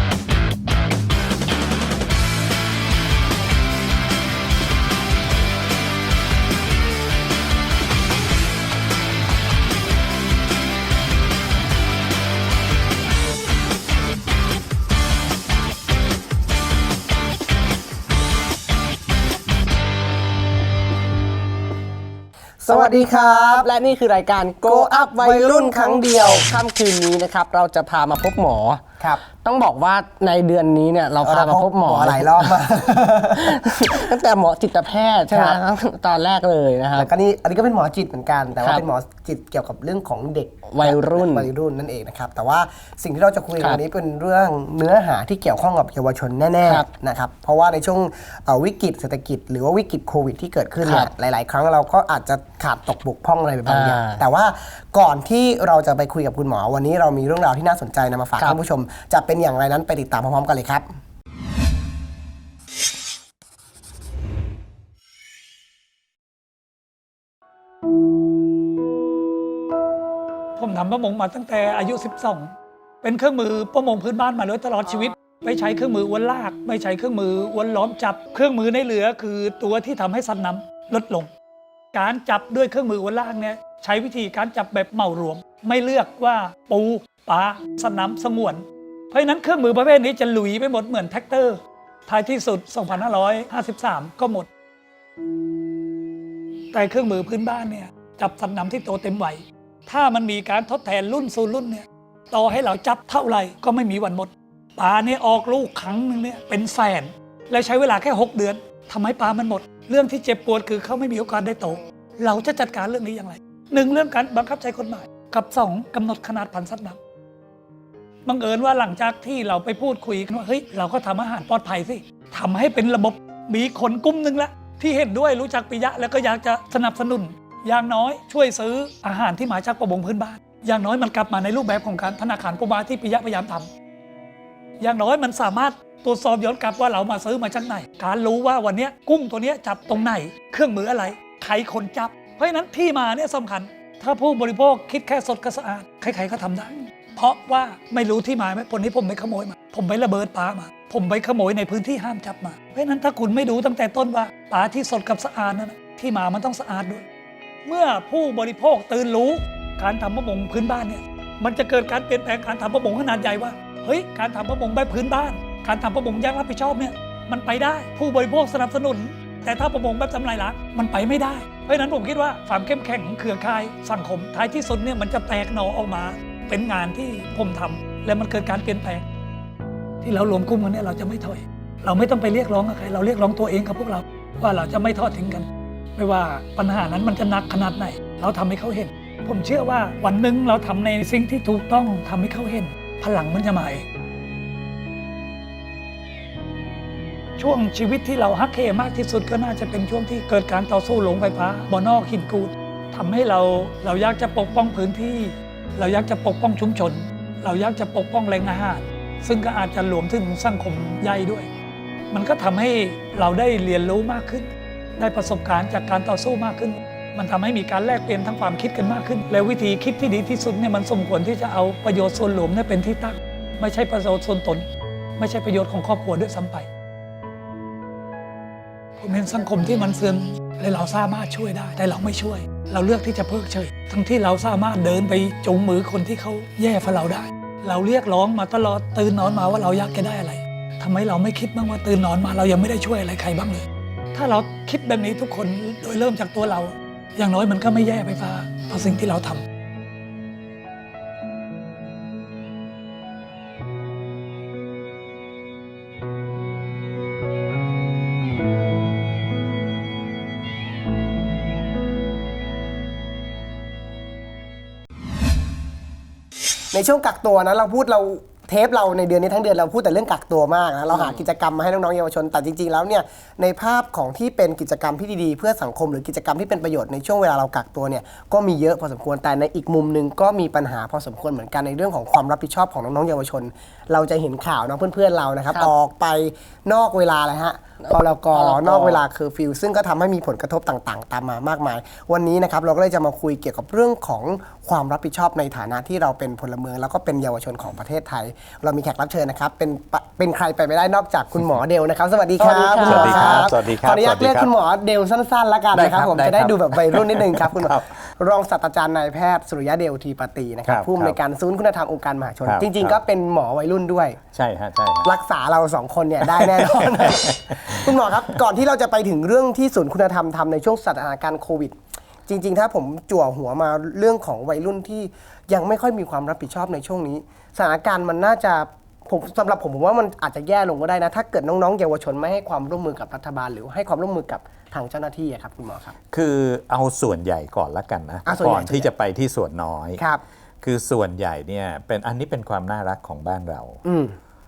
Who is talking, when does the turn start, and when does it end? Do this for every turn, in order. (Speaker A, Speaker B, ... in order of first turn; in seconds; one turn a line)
Speaker A: 22.6-23.7
Speaker B: 22.7-32.7
Speaker A: 24.6-26.5
Speaker A: 31.2-34.1
Speaker B: 33.4-37.1
Speaker A: 35.3-35.6
Speaker A: 37.0-60.9
Speaker B: 38.6-38.9
Speaker B: 40.7-41.5
Speaker B: 50.8-51.1
Speaker B: 53.7-54.2
Speaker C: 70.6-81.3
Speaker C: 81.9-94.5
Speaker C: 96.7-117.0
Speaker C: 118.3-133.7
Speaker C: 134.8-157.0
Speaker C: 157.7-179.1
Speaker C: 180.0-193.8
Speaker C: 197.4-211.5
Speaker C: 212.1-224.7
Speaker C: 225.2-226.7
Speaker C: 229.0-249.4
Speaker A: 266.7-314.2
Speaker B: 270.9-271.2
Speaker B: 287.8-289.0
Speaker B: 302.4-303.5
Speaker D: 302.8-304.5
Speaker D: 305.7-307.9
Speaker D: 310.6-311.2
Speaker D: 312.4-313.0
Speaker D: 314.3-315.1
Speaker A: 315.0-335.9
Speaker D: 316.2-318.0
Speaker D: 336.1-340.0
Speaker A: 338.3-338.9
Speaker D: 340.6-343.8
Speaker A: 343.9-344.2